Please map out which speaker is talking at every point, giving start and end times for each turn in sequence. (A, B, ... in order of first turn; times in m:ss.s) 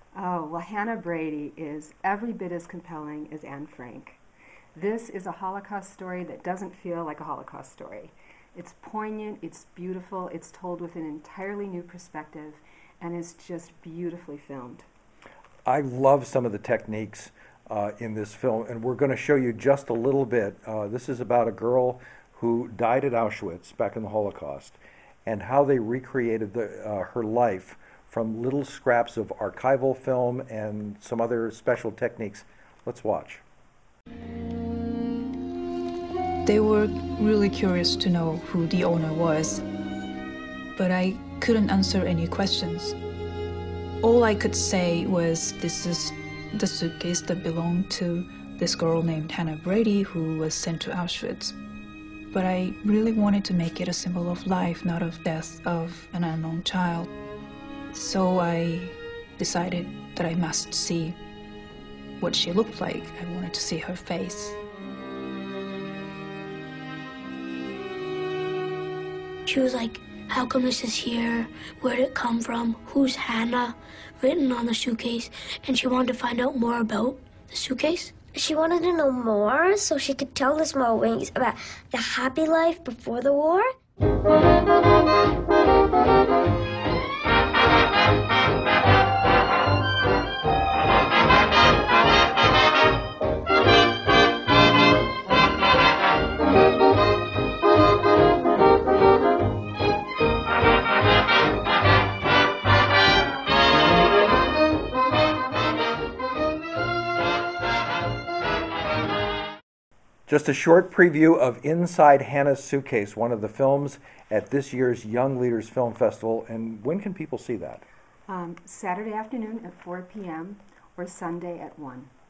0:00.1-0:04.2 A
0:04.7-0:14.8 A
0:15.6-0:33.4 B
0:36.4-0:39.6 C
0:40.7-0:43.0 C
0:44.0-0:51.6 C
0:52.3-0:57.1 C
0:57.9-1:01.2 C
1:02.2-1:04.6 C
1:09.4-1:18.2 D
1:18.3-1:23.7 E
1:50.3-1:57.9 B
1:58.3-2:02.1 A